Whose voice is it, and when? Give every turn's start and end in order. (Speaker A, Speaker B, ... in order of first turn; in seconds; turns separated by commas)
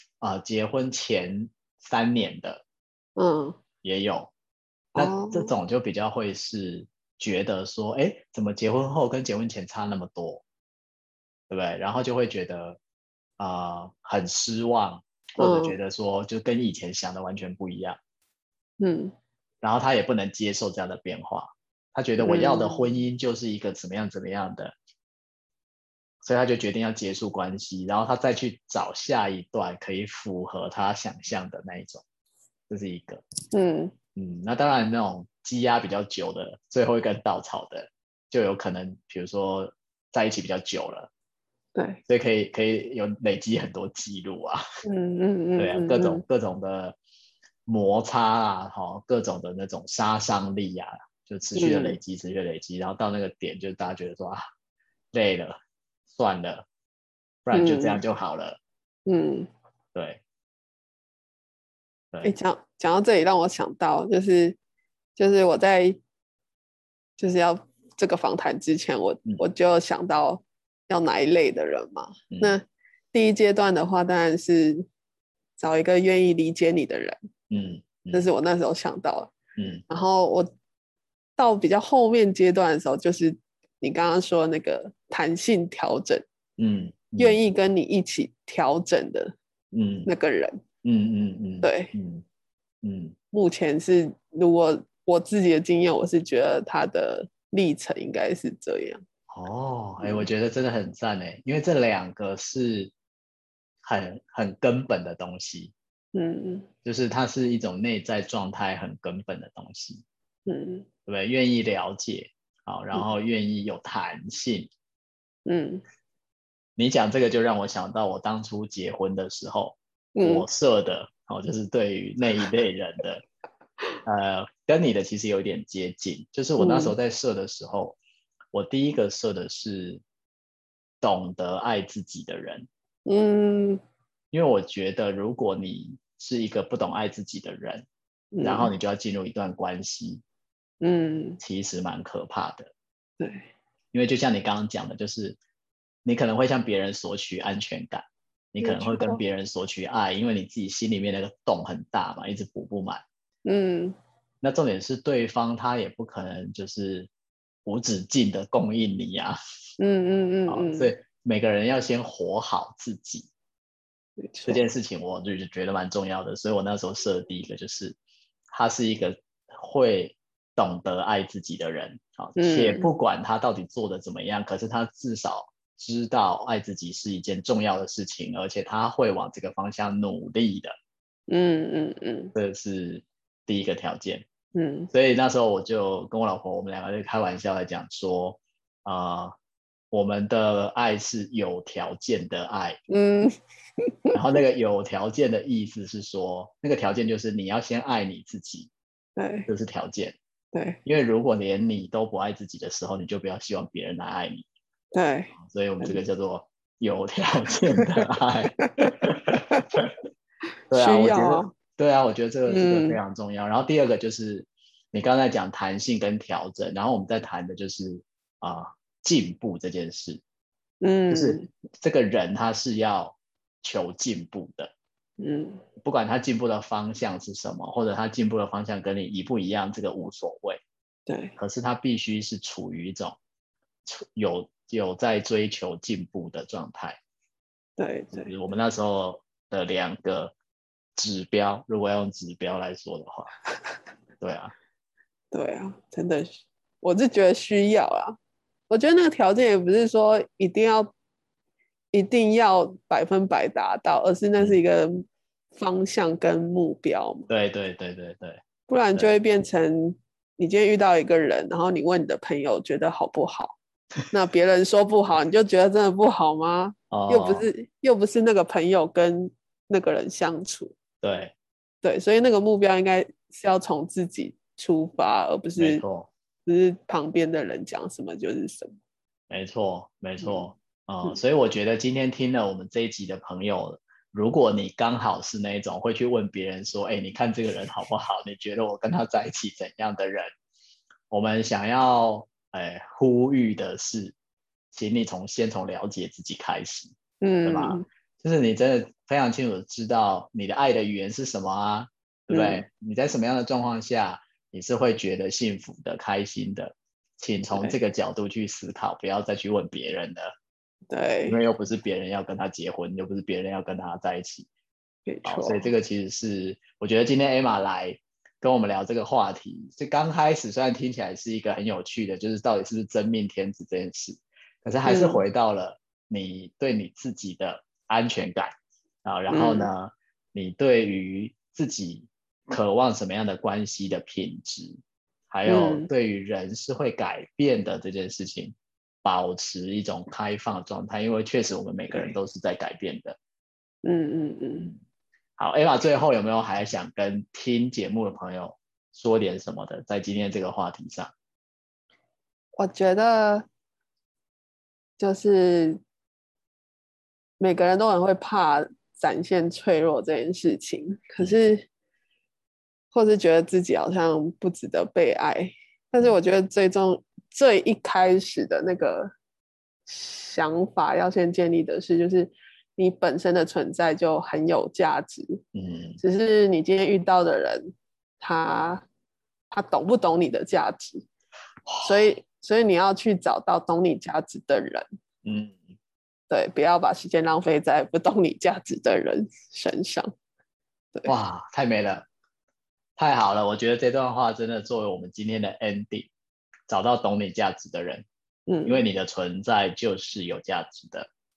Speaker A: 0.2-2.6, Speaker B: 3.1-3.6, Speaker A: 3.8-4.3, Speaker A: 4.9-10.4, Speaker B: 5.0-5.5, Speaker A: 11.5-12.8, Speaker A: 13.4-18.0, Speaker B: 15.4-15.8, Speaker B: 18.8-19.1, Speaker A: 19.6-24.7, Speaker B: 22.2-22.8, Speaker A: 26.2-32.0, Speaker A: 32.7-33.2, Speaker B: 33.5-33.9, Speaker A: 34.1-41.1, Speaker B: 41.7-42.0, Speaker A: 42.1-44.6, Speaker B: 44.8-46.2, Speaker A: 45.6-47.0, Speaker A: 47.6-54.4, Speaker B: 51.5-52.0, Speaker A: 55.1-55.6, Speaker A: 56.1-56.6, Speaker A: 57.4-58.6, Speaker B: 57.5-58.0, Speaker B: 59.0-59.5, Speaker A: 59.9-60.2, Speaker B: 62.2-64.6, Speaker B: 65.2-66.0, Speaker B: 67.2-74.8, Speaker A: 72.3-72.6, Speaker B: 75.6-77.2, Speaker A: 77.5-78.3, Speaker B: 78.1-79.3, Speaker A: 79.5-79.8, Speaker B: 79.9-80.5, Speaker B: 81.4-86.2, Speaker A: 86.6-87.4, Speaker B: 87.2-89.3, Speaker A: 89.7-90.1, Speaker B: 90.0-90.6, Speaker A: 90.8-92.2, Speaker B: 91.6-91.9, Speaker A: 92.8-93.1, Speaker B: 93.3-99.0, Speaker A: 99.3-102.9, Speaker B: 100.0-100.3, Speaker A: 103.8-105.7, Speaker B: 106.1-106.7, Speaker A: 106.8-110.0, Speaker B: 110.5-110.9, Speaker A: 111.1-114.7, Speaker B: 115.5-115.8, Speaker A: 116.8-123.2, Speaker B: 120.1-120.5, Speaker A: 124.0-128.0, Speaker B: 126.6-126.9, Speaker A: 128.5-130.0, Speaker A: 131.0-132.7, Speaker B: 133.1-133.8, Speaker A: 134.3-137.8, Speaker B: 138.3-138.7, Speaker A: 138.4-140.2, Speaker B: 140.8-141.4, Speaker A: 141.4-142.7, Speaker B: 143.2-143.5, Speaker A: 143.9-145.4, Speaker A: 146.0-153.0, Speaker B: 148.6-149.2, Speaker B: 153.4-153.9, Speaker A: 154.4-157.1, Speaker A: 157.6-159.4, Speaker B: 159.8-160.9, Speaker A: 160.5-163.3, Speaker B: 164.2-164.6, Speaker A: 164.4-168.0, Speaker A: 168.5-180.7, Speaker B: 172.4-172.9, Speaker B: 181.3-182.3, Speaker A: 182.3-184.2, Speaker B: 184.5-184.9, Speaker A: 184.9-189.3, Speaker A: 189.9-192.8, Speaker B: 192.9-193.3, Speaker A: 194.1-198.7, Speaker B: 199.2-199.5, Speaker A: 199.5-200.2, Speaker B: 200.5-200.8, Speaker A: 200.8-204.4, Speaker B: 204.9-206.0, Speaker A: 205.4-209.8, Speaker B: 208.6-209.0, Speaker A: 210.7-220.2, Speaker B: 210.7-211.5, Speaker B: 212.5-213.0, Speaker B: 220.8-221.5, Speaker A: 221.1-224.7, Speaker B: 225.2-225.6, Speaker A: 225.8-230.6, Speaker B: 231.1-231.3, Speaker A: 231.4-233.2, Speaker A: 233.8-237.0, Speaker B: 237.8-238.3, Speaker A: 238.1-240.3, Speaker A: 240.9-243.3, Speaker A: 244.2-244.5, Speaker B: 245.3-248.2, Speaker B: 248.7-250.9, Speaker B: 251.9-257.3, Speaker A: 257.3-258.4, Speaker B: 258.7-263.6, Speaker B: 264.1-270.7, Speaker A: 266.9-267.5, Speaker A: 271.0-271.3, Speaker B: 271.8-275.8, Speaker A: 275.6-276.1, Speaker B: 276.4-278.8, Speaker A: 279.3-290.3, Speaker B: 280.2-280.5, Speaker A: 291.1-294.1, Speaker A: 294.7-310.3, Speaker B: 297.2-297.9, Speaker B: 302.3-302.6, Speaker B: 307.5-307.8, Speaker B: 310.9-311.4, Speaker A: 311.3-314.5, Speaker B: 315.1-315.7, Speaker A: 315.2-328.5, Speaker B: 324.8-325.2, Speaker A: 329.0-334.8, Speaker B: 329.3-329.7, Speaker A: 335.3-343.2, Speaker B: 335.4-335.9, Speaker B: 343.8-344.7, Speaker A: 345.4-351.1, Speaker B: 352.6-353.5, Speaker B: 355.0-355.8, Speaker B: 357.4-361.7, Speaker B: 362.9-369.1, Speaker B: 369.9-375.4, Speaker A: 375.5-376.0, Speaker B: 376.0-378.9, Speaker B: 379.5-381.1, Speaker A: 381.7-382.1, Speaker B: 381.8-384.9, Speaker A: 385.2-385.6, Speaker B: 386.3-390.1, Speaker A: 391.1-392.1, Speaker A: 393.0-396.1, Speaker A: 396.7-398.1, Speaker B: 398.5-398.8, Speaker A: 398.6-401.1